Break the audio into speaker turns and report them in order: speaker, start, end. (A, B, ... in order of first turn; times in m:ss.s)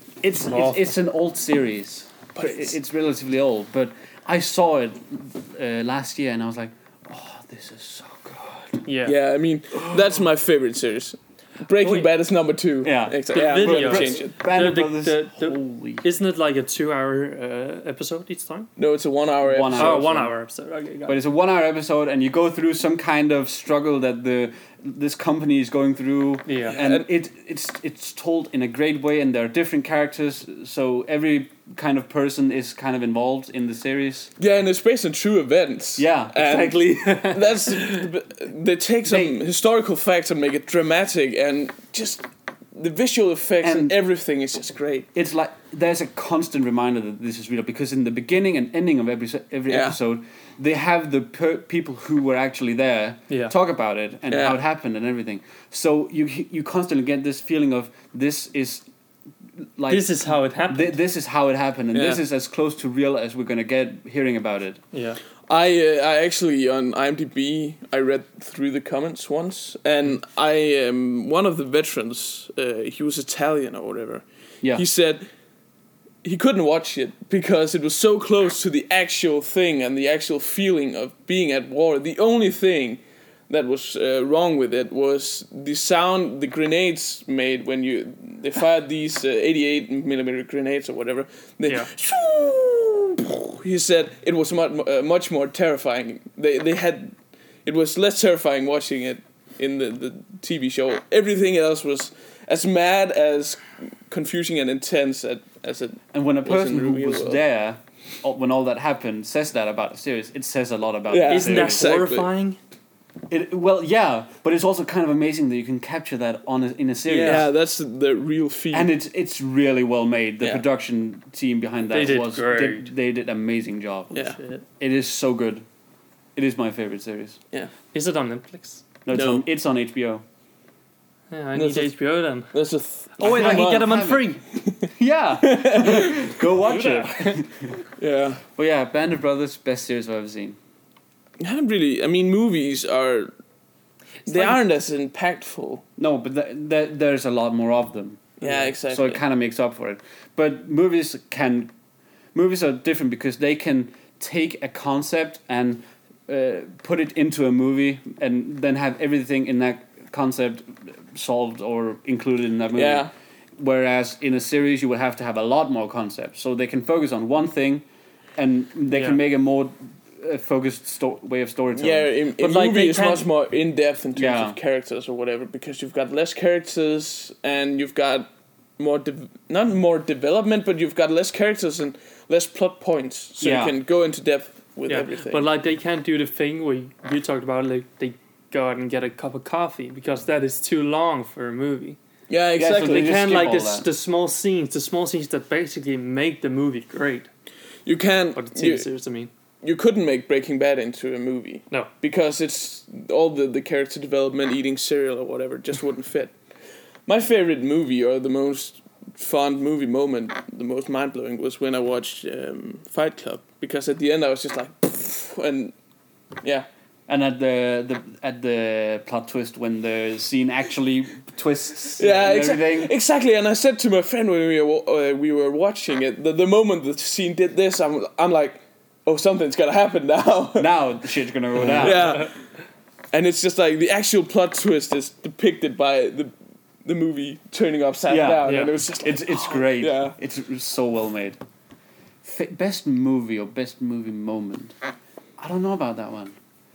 0:00.2-0:08.8 A
0:00.4-0:01.0 B
0:02.4-0:02.7 C
0:08.8-0:09.2 B
0:09.0-0:14.4 C
0:11.8-0:12.1 B
0:12.8-0:16.0 A
0:13.3-0:18.7 B
0:18.8-0:20.1 C
0:19.4-0:20.3 A
0:19.7-0:21.2 B
0:21.1-0:34.3 A
0:26.5-0:26.8 B
0:26.7-0:27.1 C
0:34.4-0:45.1 C
0:36.0-0:36.8 A
0:36.4-0:38.0 B
0:39.1-0:39.4 A
0:43.6-0:44.0 A
0:45.2-0:58.9 A
0:49.7-0:50.0 C
0:54.3-0:54.6 C
0:59.8-1:04.8 A
0:59.9-1:01.0 B
1:01.9-1:02.2 C
1:04.9-1:05.2 B
1:05.5-1:15.3 C
1:16.2-1:47.4 C
1:46.1-1:51.9 A
1:51.1-1:52.3 C
1:51.3-1:52.6 B
1:53.3-1:57.5 A
1:57.1-1:58.9 C
1:58.7-2:05.6 A
2:01.9-2:02.9 B
2:04.1-2:04.4 C
2:04.2-2:04.6 B
2:06.4-2:07.4 A
2:07.9-2:08.8 B
2:09.1-2:10.2 A
2:09.1-2:09.5 C
2:11.3-2:12.5 B
2:11.5-2:11.9 C
2:12.5-2:14.9 C
2:13.2-2:14.4 B
2:13.2-2:17.8 A
2:15.4-2:16.3 C
2:16.6-2:17.4 B
2:18.0-2:18.4 C
2:18.5-2:20.6 A
2:21.4-2:23.3 C
2:24.3-2:25.8 C
2:24.3-2:24.6 B
2:26.0-2:31.7 A
2:28.4-2:29.2 C
2:32.3-2:47.8 A
2:42.8-2:43.1 C
2:48.4-2:52.1 A
2:48.9-2:49.2 B
2:51.8-2:58.3 C
2:52.4-2:53.3 B
2:54.2-2:54.6 A
2:58.8-3:05.5 C
3:03.4-3:03.8 A
3:04.9-3:12.0 B
3:12.3-3:13.2 C
3:12.6-3:13.9 A
3:12.8-3:17.3 B
3:17.9-3:18.9 C
3:18.4-3:19.3 B
3:19.6-3:26.3 C
3:27.1-3:35.7 C
3:37.1-3:42.9 A
3:42.0-3:50.7 C
3:50.6-3:52.2 A
3:51.6-3:52.3 C
3:53.1-3:56.3 C
3:56.8-4:00.2 C
3:58.1-4:01.4 A
3:58.4-3:58.7 B
4:02.2-4:04.7 A
4:05.4-4:06.4 A